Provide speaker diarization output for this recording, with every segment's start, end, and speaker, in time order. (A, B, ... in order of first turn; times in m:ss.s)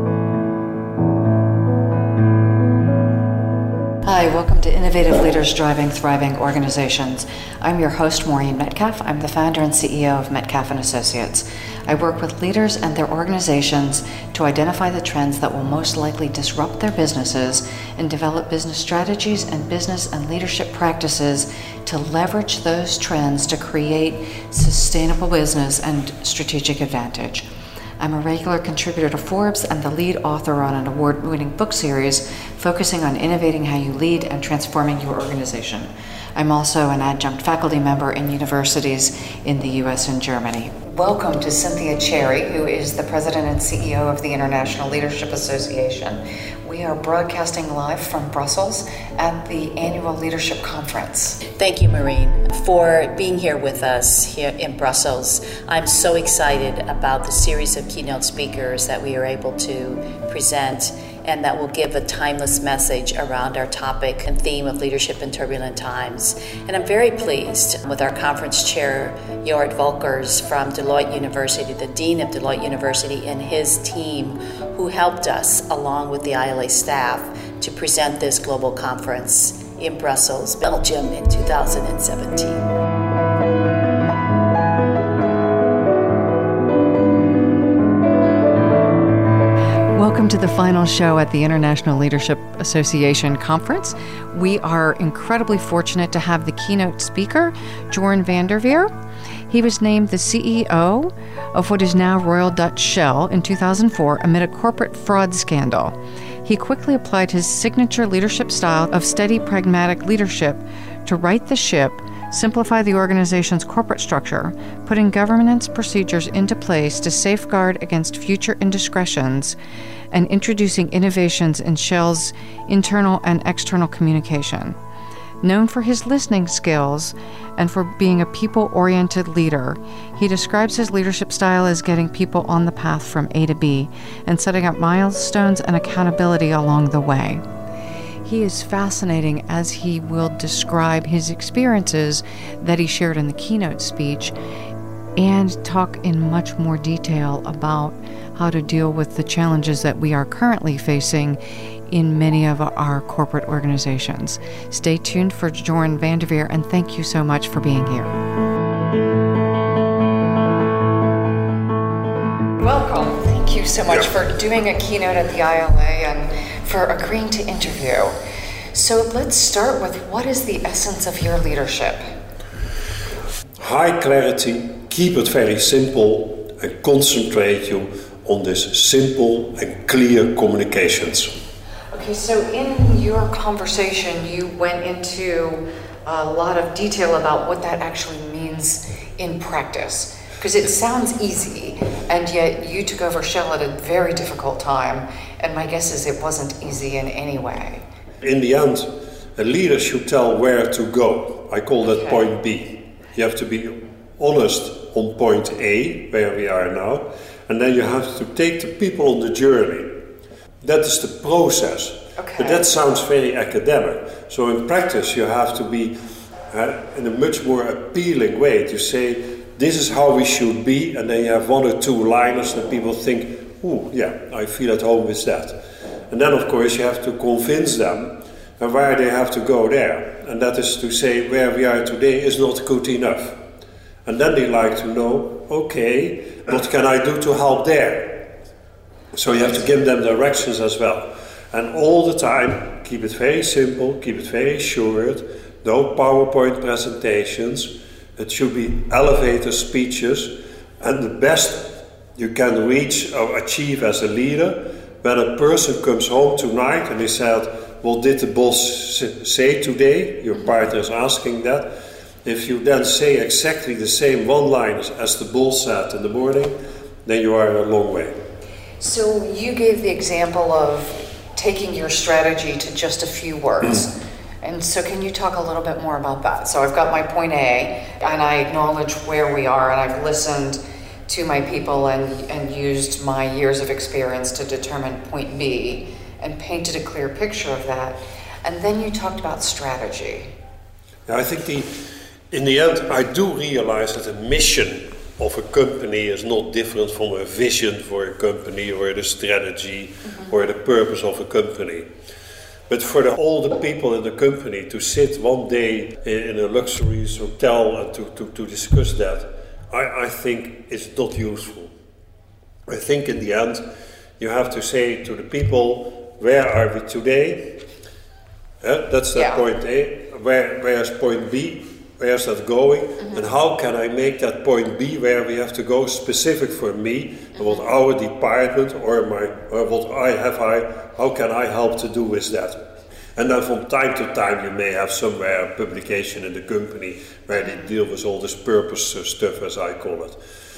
0:04.0-0:27.5 A
0:28.0-0:51.4 A
0:51.5-1:22.6 B
1:29.9-1:38.9 A
1:39.5-1:59.6 A
2:00.1-2:04.8 A
2:05.4-2:17.4 A
2:18.2-2:24.4 A
2:25.2-2:38.2 A
2:42.6-2:48.2 A
2:48.7-2:52.0 A
2:53.6-3:01.3 C
3:01.9-3:17.9 A
3:18.2-3:30.0 C
3:21.8-3:22.3 A
3:30.6-3:36.0 C
3:32.2-3:32.7 A
3:36.5-3:53.4 C
3:54.1-3:58.3 C
3:59.1-4:21.7 C
4:22.2-4:28.2 C
4:28.8-4:50.4 A
4:51.1-4:51.8 C
4:52.3-5:01.9 C
5:02.7-5:11.7 C
5:12.7-5:13.6 C
5:14.2-5:17.6 C
5:18.6-5:32.6 C
5:19.1-5:19.4 A
5:33.2-5:40.2 C
5:37.3-5:37.7 A